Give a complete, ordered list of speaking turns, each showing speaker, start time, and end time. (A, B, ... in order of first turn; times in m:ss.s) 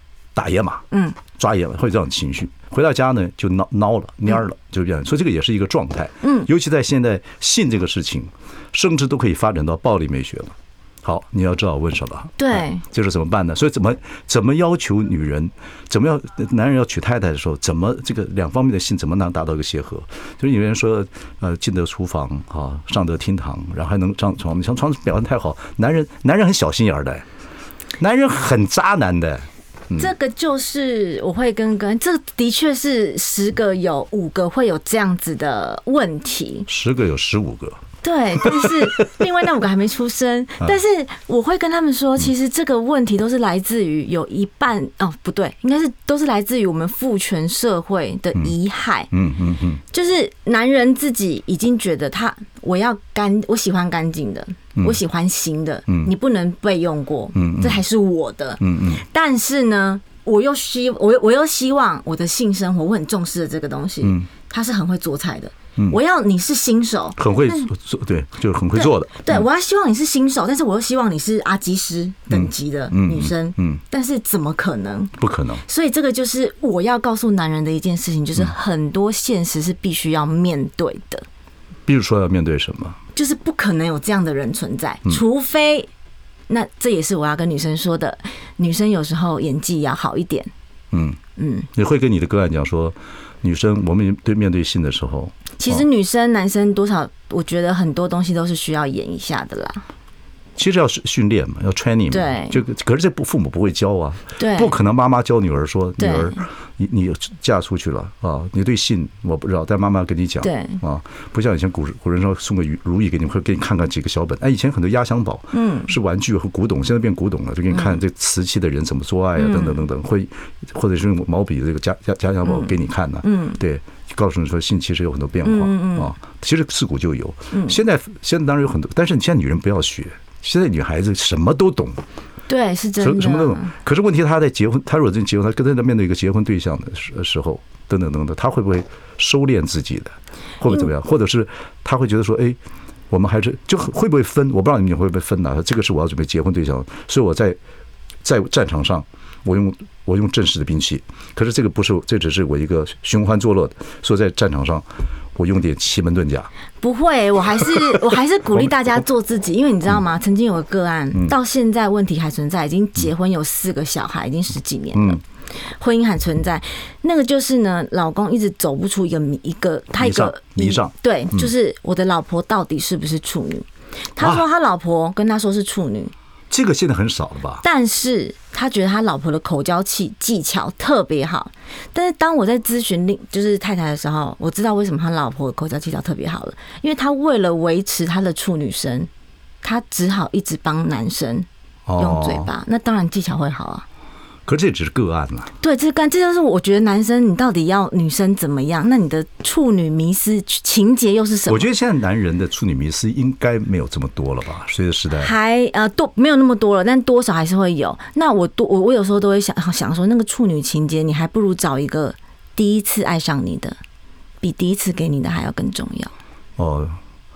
0:00.3-0:27.2 A
0:00.9-0:01.2 B
0:06.2-0:06.5 B
0:12.4-0:12.8 B
0:28.0-0:30.1 A
0:30.0-0:36.7 B
0:36.7-0:37.8 A
0:38.0-0:49.1 B
0:38.4-0:39.3 A
0:49.1-0:49.8 A
0:49.9-1:07.7 B
0:57.3-0:57.8 A
0:58.6-0:59.0 A
1:04.0-1:04.3 A
1:07.2-1:09.4 A
1:08.7-1:15.1 B
1:12.3-1:13.8 A
1:15.2-1:15.6 A
1:15.6-1:21.2 B
1:21.8-1:23.0 A
1:23.2-1:25.9 B
1:26.5-1:30.5 B
1:30.9-1:31.2 A
1:31.4-1:31.7 B
1:31.7-1:35.8 A
1:35.6-1:39.8 B
1:40.6-2:12.0 A
1:42.1-1:42.6 B
1:44.4-1:44.8 B
1:46.0-1:46.4 B
1:50.4-1:50.8 B
1:55.5-1:55.9 B
1:57.7-1:58.0 B
1:59.4-1:59.8 B
2:02.4-2:02.7 B
2:03.2-2:03.6 B
2:05.4-2:06.1 B
2:07.5-2:07.8 B
2:12.5-2:13.7 B
2:13.0-2:22.6 A
2:23.1-2:27.6 A
2:28.2-2:36.5 A
2:36.8-2:45.2 B
2:44.9-2:45.2 A
2:45.8-2:56.1 B
2:50.0-2:51.5 A
2:54.2-2:54.4 A
2:56.5-2:57.6 A
2:57.6-3:09.1 B
3:09.6-3:11.5 B
3:11.9-3:12.5 A
3:12.0-3:13.8 B
3:14.4-3:15.5 A
3:15.6-3:21.7 B
3:21.5-3:25.3 A
3:25.1-3:33.8 B
3:34.4-3:36.1 B
3:36.6-3:37.0 A